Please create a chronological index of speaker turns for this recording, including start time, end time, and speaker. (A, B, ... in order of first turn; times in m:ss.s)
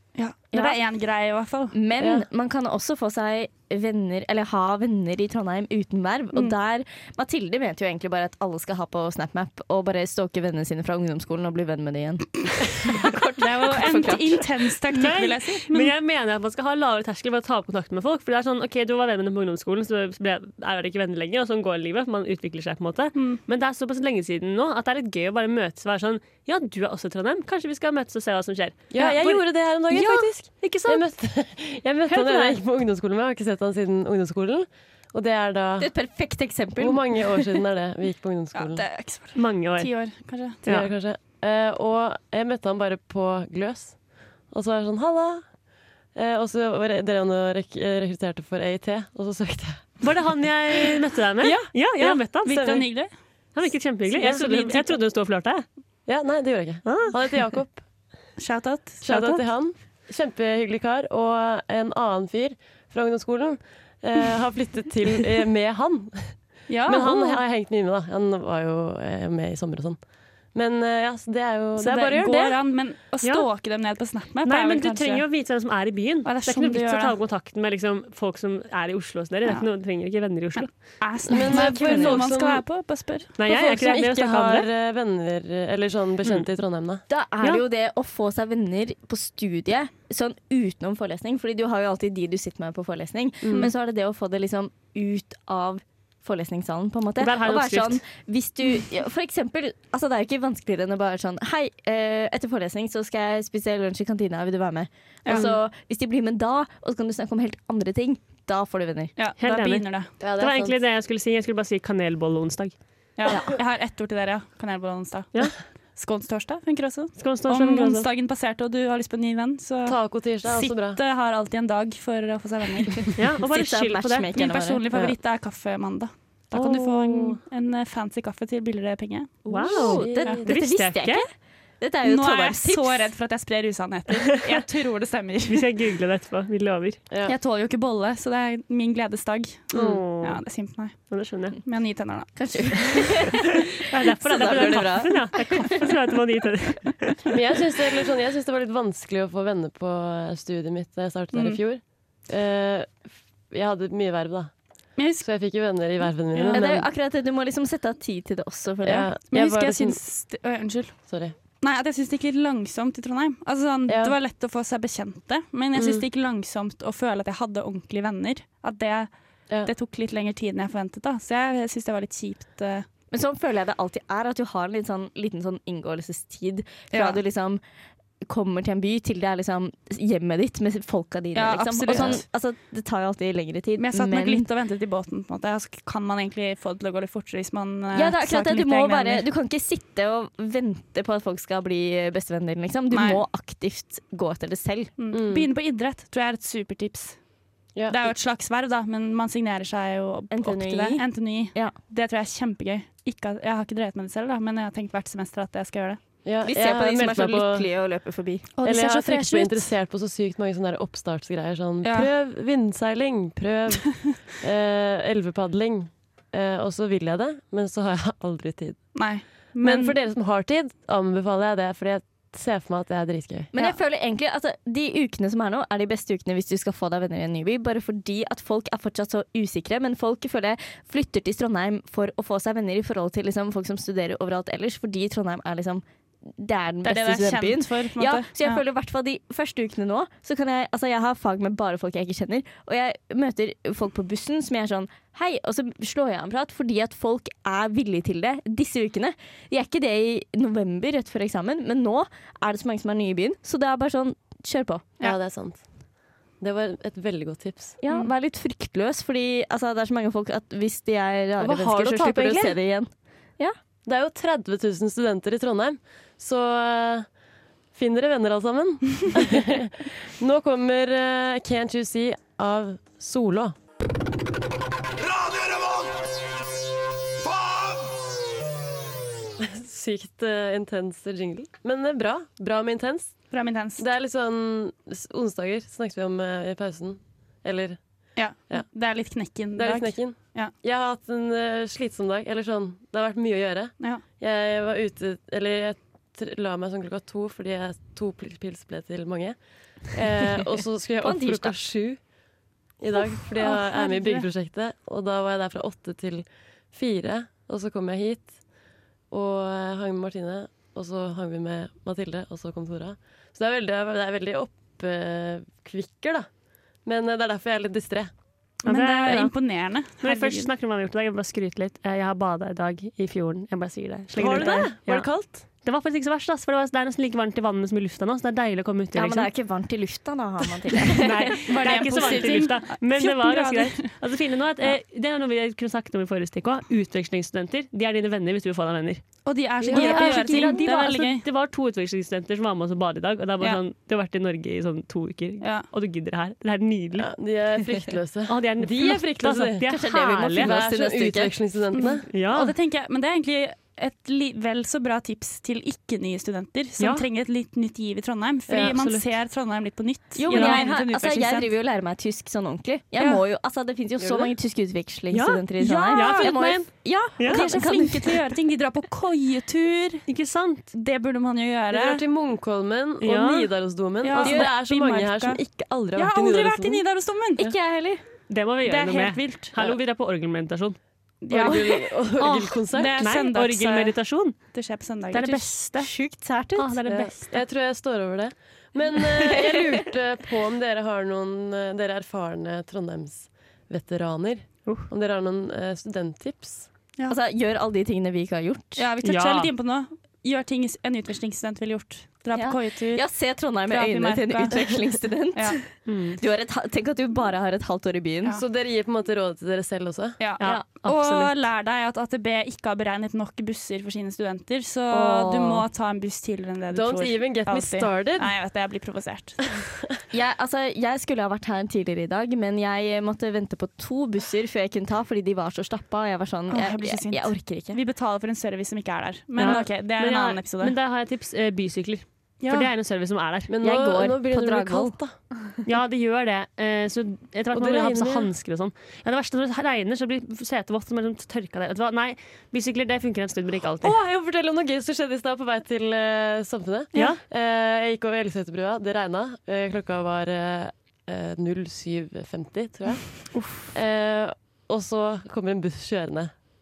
0:00.2-0:01.8 A
0:01.7-0:14.5 B
0:02.0-0:02.3 C
0:13.4-0:15.9 A
0:14.9-0:31.1 D
0:28.9-0:35.9 C
0:32.1-0:32.6 D
0:35.8-0:37.6 B
0:36.8-0:38.9 C
0:38.6-0:40.6 A
0:39.4-0:40.1 D
0:40.6-0:40.9 D
0:40.7-0:45.5 C
0:46.1-0:50.2 C
0:50.0-0:52.9 D
0:51.4-0:53.1 A
0:52.2-0:52.8 C
0:53.5-0:55.7 D
0:54.2-0:55.0 A
0:56.1-0:57.8 C
0:56.8-0:57.2 D
0:58.4-0:59.0 A
0:59.0-1:12.6 C
0:59.1-0:59.4 D
1:06.7-1:07.4 A
1:11.8-1:15.3 A
1:13.2-1:13.5 D
1:14.4-1:21.1 D
1:16.2-1:17.2 A
1:19.4-1:23.4 A
1:21.3-1:22.7 C
1:21.6-1:22.1 B
1:23.4-1:24.7 D
1:23.4-1:27.0 C
1:27.1-1:49.1 B
1:33.4-1:33.7 C
1:37.2-1:38.0 D
1:49.2-1:50.1 A
1:49.4-1:52.8 D
1:50.2-1:50.8 C
1:53.2-1:55.3 A
1:56.0-2:03.2 A
1:57.2-1:58.1 D
1:59.8-2:01.0 C
2:03.2-2:04.3 D
2:03.5-2:04.8 B
2:04.3-2:09.4 A
2:06.6-2:07.3 D
2:09.5-2:11.3 B
2:09.5-2:11.3 D
2:09.6-2:10.4 C
2:11.8-2:13.1 B
2:12.0-2:15.7 A
2:15.5-2:17.0 D
2:17.1-2:17.4 C
2:17.2-2:23.0 A
2:19.7-2:20.0 C
2:19.7-2:20.4 D
2:21.1-2:21.6 D
2:22.4-2:23.5 B
2:23.8-2:27.2 D
2:24.2-2:25.8 B
2:27.3-2:36.9 C
2:35.0-2:35.3 A
2:36.5-2:39.1 B
2:38.8-2:40.0 C
2:39.3-2:41.0 A
2:41.1-2:41.4 C
2:41.6-2:49.1 A
2:43.9-2:44.2 C
2:45.7-2:46.0 C
2:49.6-2:52.9 A
2:53.1-2:57.6 B
2:56.9-2:57.2 A
2:58.2-3:04.5 B
3:01.4-3:02.2 A
3:03.8-3:09.3 A
3:07.9-3:14.9 B
3:12.9-3:13.2 A
3:15.0-3:17.2 A
3:15.1-3:15.5 C
3:17.8-3:18.1 C
3:17.9-3:26.0 A
3:20.3-3:21.7 B
3:26.2-3:27.7 C
3:26.4-3:28.5 B
3:28.6-3:29.6 A
3:28.6-3:43.5 C
3:31.8-3:32.1 A
3:38.9-3:39.9 A
3:43.5-4:14.8 B
3:56.8-3:58.6 A
4:15.0-4:15.6 C
4:16.4-4:17.8 C
4:17.8-4:23.6 B
4:21.4-4:22.6 C
4:23.9-4:27.1 C
4:27.7-4:33.6 C
4:39.4-4:48.7 C
4:43.3-4:43.8 A
4:48.2-4:50.5 A
4:49.5-5:02.0 C
5:01.0-5:01.6 B
5:02.8-5:08.4 C
5:03.4-5:04.3 A
5:09.1-5:16.3 C
5:16.8-5:18.1 C
5:18.6-5:20.5 A
5:18.6-5:29.3 D
5:24.1-5:25.4 C
5:28.9-5:31.4 B
5:30.9-5:39.0 D
5:31.5-5:34.0 A
5:39.2-5:41.2 A
5:39.6-5:40.0 C
5:39.6-5:47.1 D
5:45.4-5:45.7 A
5:47.0-5:49.7 C
5:48.3-5:50.6 D
5:49.7-5:51.3 B
5:50.4-5:52.1 C
5:51.8-6:01.5 A
5:52.1-5:52.5 D
5:56.8-5:57.1 D
5:58.5-5:58.8 C
5:58.5-5:59.1 D
6:00.2-6:08.2 B
6:00.3-6:00.6 D
6:04.0-6:04.3 C
6:05.1-6:07.5 D
6:05.6-6:06.4 A
6:07.3-6:10.1 A
6:10.1-6:10.7 D
6:10.7-6:12.0 A
6:11.7-6:16.8 C
6:13.0-6:13.5 D
6:14.0-6:15.4 A
6:14.2-6:14.5 B
6:16.0-6:17.5 A
6:17.4-6:18.0 B
6:18.3-6:20.8 D
6:18.6-6:19.5 A
6:21.2-6:21.9 A
6:21.3-6:23.0 C
6:22.2-6:25.9 D
6:22.7-6:25.8 A
6:25.8-6:26.8 B
6:26.6-6:27.4 D
6:26.9-6:36.7 C
6:37.1-6:38.8 B
6:38.8-6:43.0 A
6:39.0-6:39.5 D
6:42.3-6:48.4 B
6:43.7-6:45.6 A
6:45.9-6:46.2 D
6:48.3-6:50.2 C
6:50.2-6:59.5 A
6:50.4-6:51.4 D
6:54.9-6:55.7 D
6:56.7-6:58.4 C
7:00.1-7:07.8 B
7:06.5-7:10.7 A
7:09.4-7:13.5 D
7:12.4-7:12.7 A
7:13.5-7:15.2 C
7:13.6-7:15.0 B
7:15.6-7:24.0 D
7:17.5-7:18.3 C
7:23.8-7:36.4 C
7:26.9-7:27.2 D
7:33.3-7:33.7 D